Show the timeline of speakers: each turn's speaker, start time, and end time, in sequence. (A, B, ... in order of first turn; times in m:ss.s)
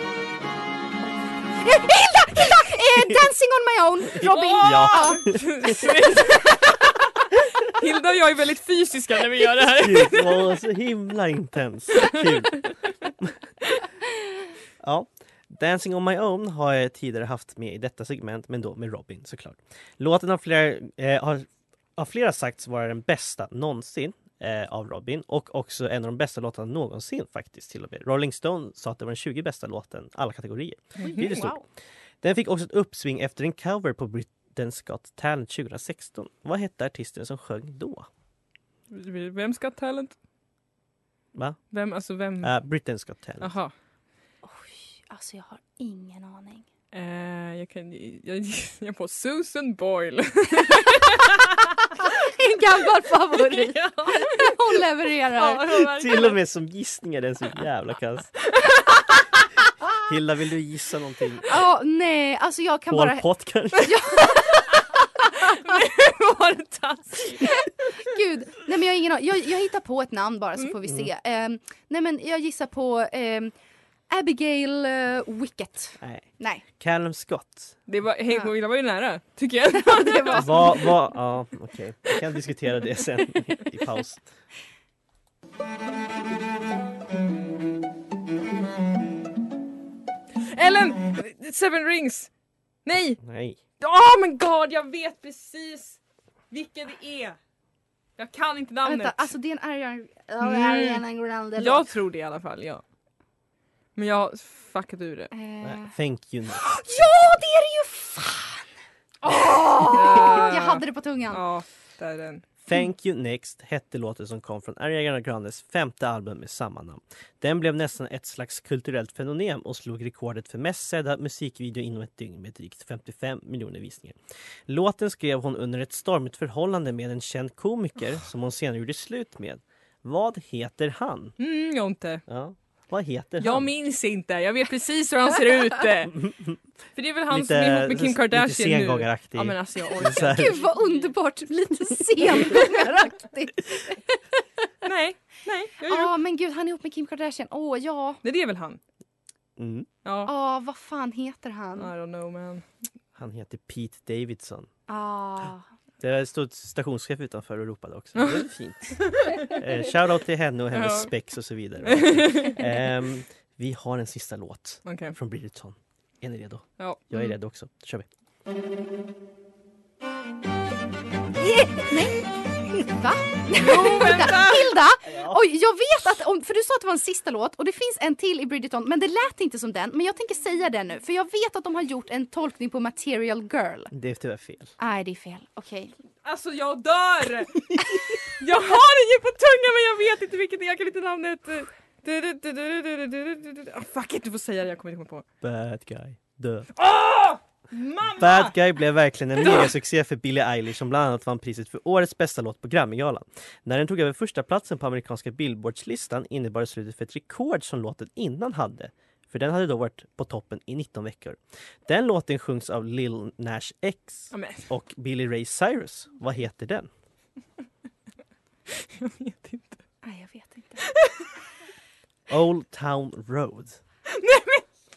0:01.6-0:05.2 A
0:04.2-0:05.7 B
0:04.2-0:06.9 C
0:07.6-0:10.6 C
0:09.6-0:12.7 B
0:14.8-0:31.6 B
0:31.0-0:31.6 A
0:32.2-0:38.1 B
0:38.9-0:40.1 C
0:41.3-0:41.6 B
0:41.7-0:42.5 C
0:42.4-0:43.5 B
0:43.4-0:43.7 C
0:44.4-0:46.6 A
0:46.9-0:51.8 C
0:51.9-0:55.7 A
0:53.3-0:56.4 C
0:55.6-0:58.4 B
1:00.0-1:01.5 B
1:01.4-1:05.9 A
1:02.9-1:04.0 B
1:04.4-1:07.7 C
1:07.4-1:13.5 A
1:14.1-1:16.6 A
1:16.0-1:17.8 B
1:17.9-1:20.8 C
1:19.8-1:20.9 A
1:20.3-1:24.3 B
1:30.4-1:32.3 C
1:32.8-1:33.2 C
1:33.2-1:33.6 B
1:33.8-1:36.0 C
1:36.5-1:37.4 C
1:38.2-1:39.3 C
1:38.8-1:41.8 A
1:40.4-1:41.0 C
1:41.6-1:42.8 C
1:44.0-1:45.3 C
1:45.3-1:45.9 A
1:45.6-1:46.8 B
1:46.5-1:48.7 A
1:49.2-1:51.4 A
1:49.8-1:52.4 C
1:52.6-2:11.4 B
2:11.4-2:12.2 C
2:12.3-2:13.7 B
2:13.4-2:16.3 C
2:16.1-2:16.6 B
2:17.0-2:21.1 C
2:17.3-2:20.6 B
2:20.0-2:24.2 A
2:24.8-2:26.1 C
2:25.8-2:28.2 A
2:28.2-2:28.8 C
2:29.6-2:29.9 B
2:30.0-2:30.3 C
2:30.2-2:31.9 A
2:31.8-2:32.7 C
2:33.1-2:34.7 B
2:34.9-2:35.7 A
2:36.0-2:48.0 B
2:38.2-2:38.4 C
2:39.0-2:39.6 C
2:40.7-2:41.1 C
2:41.8-2:42.6 C
2:44.8-2:45.2 C
2:46.8-2:47.1 C
2:51.4-2:52.2 A
2:52.7-3:03.9 A
2:53.6-2:54.8 C
2:55.0-2:55.4 B
3:03.9-3:04.7 B
3:04.8-3:05.9 A
3:06.2-3:07.8 C
3:08.3-3:15.2 C
3:15.4-3:16.7 B
3:16.8-3:18.6 C
3:18.2-3:36.9 B
3:34.3-3:34.7 C
3:38.7-3:39.8 C
3:40.0-3:40.8 A
3:40.8-3:41.3 C
3:42.3-3:43.8 B
3:44.1-3:44.6 C